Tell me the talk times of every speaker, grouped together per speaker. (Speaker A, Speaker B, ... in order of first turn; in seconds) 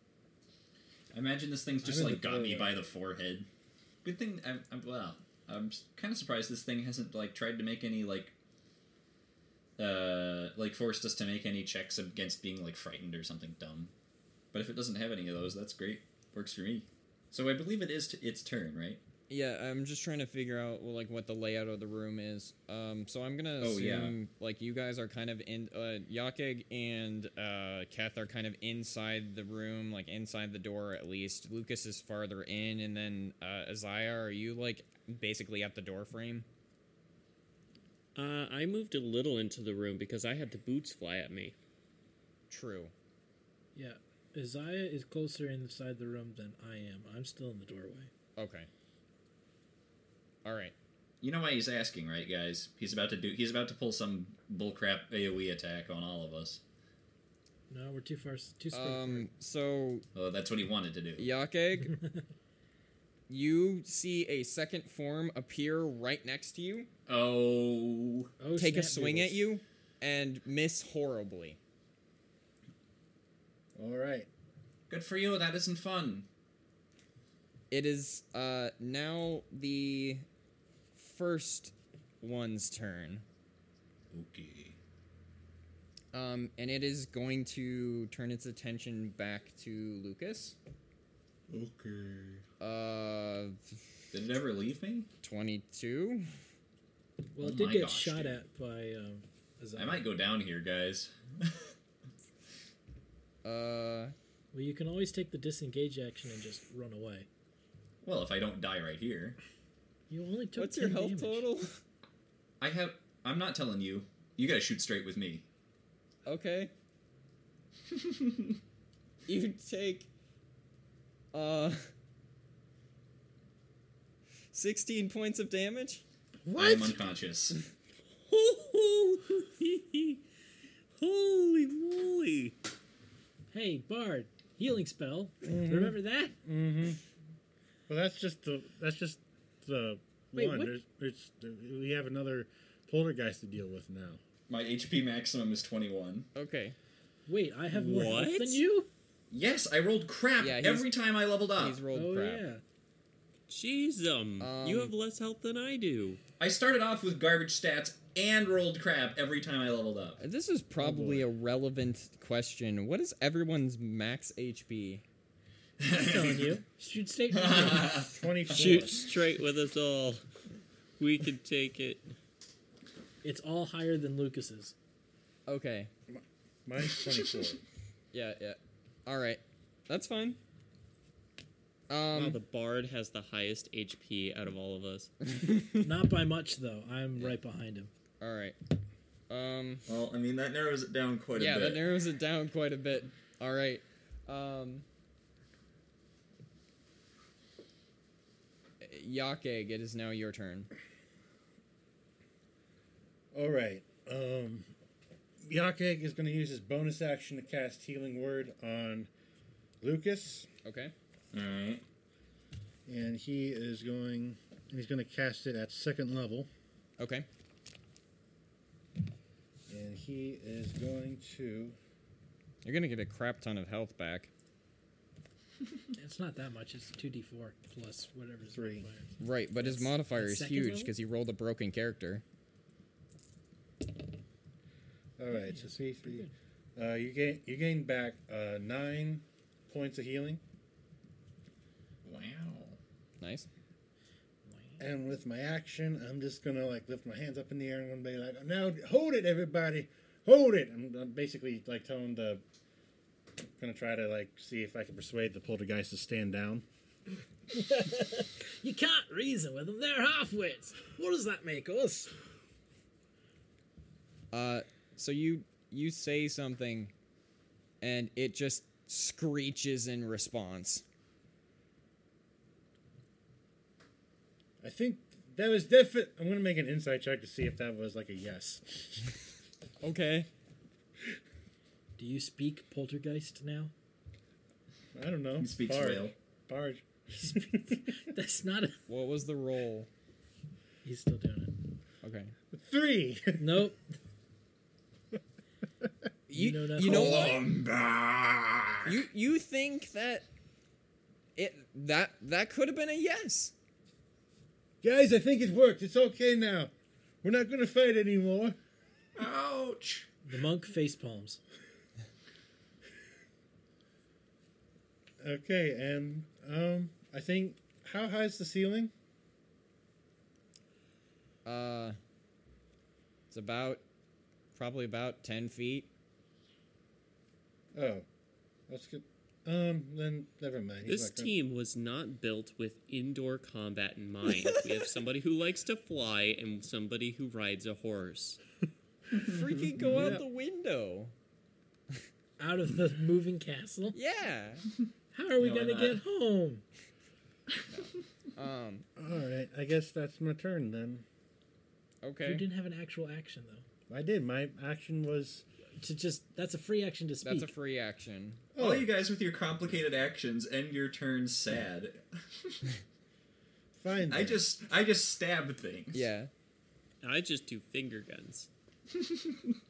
Speaker A: 1.1-3.5, 4.0-8.3, 9.8-13.9, 14.5-19.0, 23.6-24.1, 51.2-56.6, 60.1-61.3, 67.1-68.3, 74.9-76.3, 84.1-84.8, 91.5-92.4, 94.1-95.1, 97.4-98.4, 99.8-101.7, 108.0-109.4, 112.6-115.4, 117.9-118.6, 126.5-127.6, 144.5-146.3, 149.3-151.8, 156.4-160.2, 165.8-166.5, 167.3-168.9, 189.9-191.8, 211.3-211.8, 242.0-242.8, 285.4-286.1, 296.8-299.0, 309.1-310.1, 339.1-340.2, 345.4-346.0, 358.6-362.7, 364.1-366.1, 369.0-369.5
Speaker B: 1.9-2.6, 43.7-48.1, 57.7-59.3, 68.4-69.5, 97.3-100.1, 104.5-107.3, 110.1-111.5, 133.5-136.4, 140.3-140.8, 147.3-148.9, 151.9-152.6, 165.9-168.1, 173.2-174.7, 185.8-187.9, 225.9-230.9, 235.3-236.3, 257.5-262.1, 282.0-283.7, 287.1-288.8, 290.8-291.6, 293.4-293.8, 296.3-297.4, 310.2-311.4, 342.4-344.0, 345.1-346.6, 352.2-353.6, 355.8-357.5
Speaker C: 2.1-2.4, 73.8-74.3, 126.5-126.9, 135.4-137.0, 137.9-144.2, 160.8-161.3, 167.9-169.0, 176.1-177.6, 203.3-204.7, 205.4-209.1, 209.8-210.5, 212.8-216.5, 219.7-221.7, 228.5-228.9, 235.2-240.4, 244.8-252.4, 253.6-256.6, 274.6-279.1, 284.9-287.9, 292.5-293.6, 304.8-306.7, 307.2-308.6, 315.2-318.9, 327.7-328.0, 328.7-331.3, 339.8-340.2, 348.9-351.0, 353.9-355.4, 358.5-358.9, 363.8-364.4
Speaker D: 19.3-36.5, 42.5-42.9, 48.4-48.7, 50.4-50.7, 58.7-60.0, 61.2-62.0, 63.3-66.9, 68.5-71.6, 77.7-80.2, 80.9-83.2, 86.1-90.5, 92.6-93.8, 95.2-96.3, 103.4-104.1, 110.5-111.8, 116.2-116.7, 119.3-120.1, 121.3-121.9, 124.5-126.0, 146.3-146.8, 150.4-150.9, 151.6-152.4, 154.4-154.9, 160.2-165.0, 175.5-175.9, 178.1-180.4, 181.9-182.4, 185.2-185.9, 188.2-188.6, 189.3-189.8, 191.3-194.8, 198.8-200.7, 210.6-210.9, 217.0-217.2, 222.6-224.3, 229.2-232.2, 243.2-243.5, 264.3-266.9, 267.8-270.8, 279.8-280.3, 288.9-289.9, 292.0-292.3, 296.3-297.4, 298.8-300.3, 301.4-303.5, 321.4-322.0, 323.3-323.8, 324.5-325.9, 339.1-341.1, 343.9-344.6, 347.7-348.9, 352.0-352.4, 357.2-358.4, 365.9-366.3
Speaker E: 38.1-41.5, 128.3-130.2, 131.0-132.5, 147.7-148.6, 153.5-156.2, 168.5-170.2, 171.0-172.1, 182.1-185.1, 330.8-338.4, 367.0-368.5